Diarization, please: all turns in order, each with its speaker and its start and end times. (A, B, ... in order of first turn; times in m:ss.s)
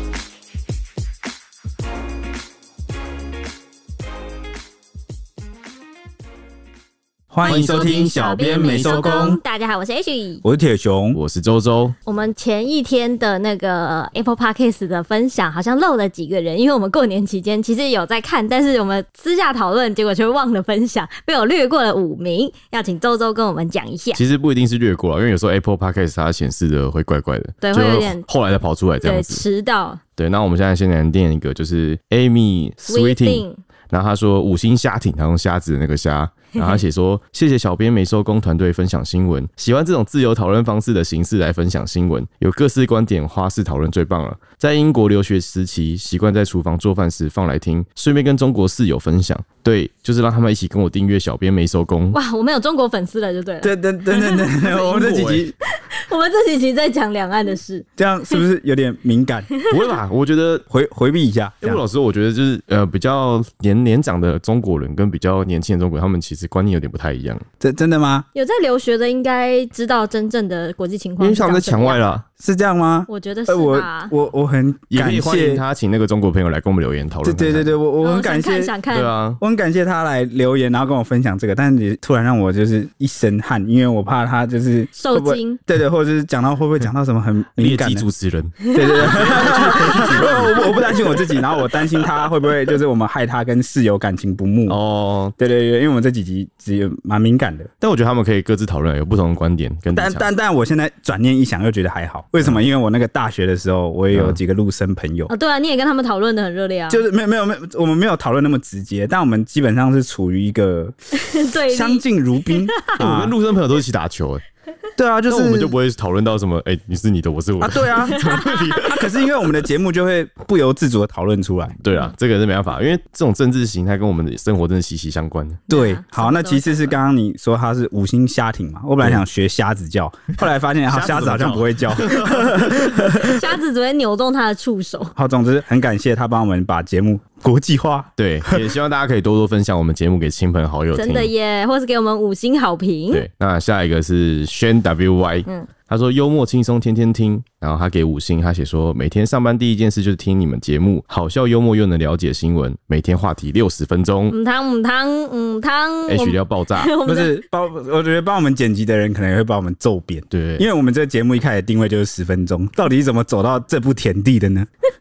0:07.3-0:09.4 A
0:07.4-0:10.4 B
0:07.4-0:09.4 C
0:10.4-0:11.2 A
0:11.1-0:11.9 C
0:12.0-0:24.2 B
0:24.1-0:29.4 C
0:27.6-0:28.2 B
0:29.0-0:30.0 B
0:30.2-0:52.2 C
0:32.8-0:33.6 B
0:36.6-0:36.8 B
0:52.1-0:54.9 B
0:53.6-0:55.5 A
0:54.8-0:55.4 C
0:55.8-0:57.8 B
0:58.0-0:59.5 A
0:59.7-1:00.6 C
1:00.7-1:01.8 A
1:01.6-1:07.4 C
1:07.6-1:08.2 A
1:08.3-1:12.0 B
1:11.2-1:12.2 C
1:12.4-1:15.6 A
1:13.1-1:14.1 B
1:14.9-1:17.7 C
1:17.2-1:18.7 A
1:18.0-1:19.1 B
1:18.9-1:19.4 C
1:19.4-1:28.1 A
1:24.9-1:25.6 B
1:27.6-1:31.4 C
1:28.7-1:30.3 B
1:28.7-1:34.8 A
1:34.7-1:35.3 C
1:35.4-1:37.7 A
1:37.8-1:40.2 C
1:39.9-1:45.3 A
1:44.1-1:44.4 C
1:45.3-1:47.0 B
1:46.9-1:51.0 A
1:51.1-1:53.0 B
1:51.7-1:53.3 A
1:53.0-1:54.4 C
1:55.0-1:55.7 A
1:55.3-1:59.3 C
1:57.6-2:01.8 A
2:01.8-2:05.6 C
2:05.7-2:06.9 B
2:05.7-2:13.3 A
2:10.9-2:12.9 C
2:13.2-2:15.1 B
2:15.1-2:18.7 A
2:18.2-2:21.3 C
2:20.9-2:23.2 B
2:23.1-2:34.4 C
2:34.3-2:37.4 B
2:36.1-2:36.9 C
2:37.0-2:44.7 A
2:40.3-2:40.6 C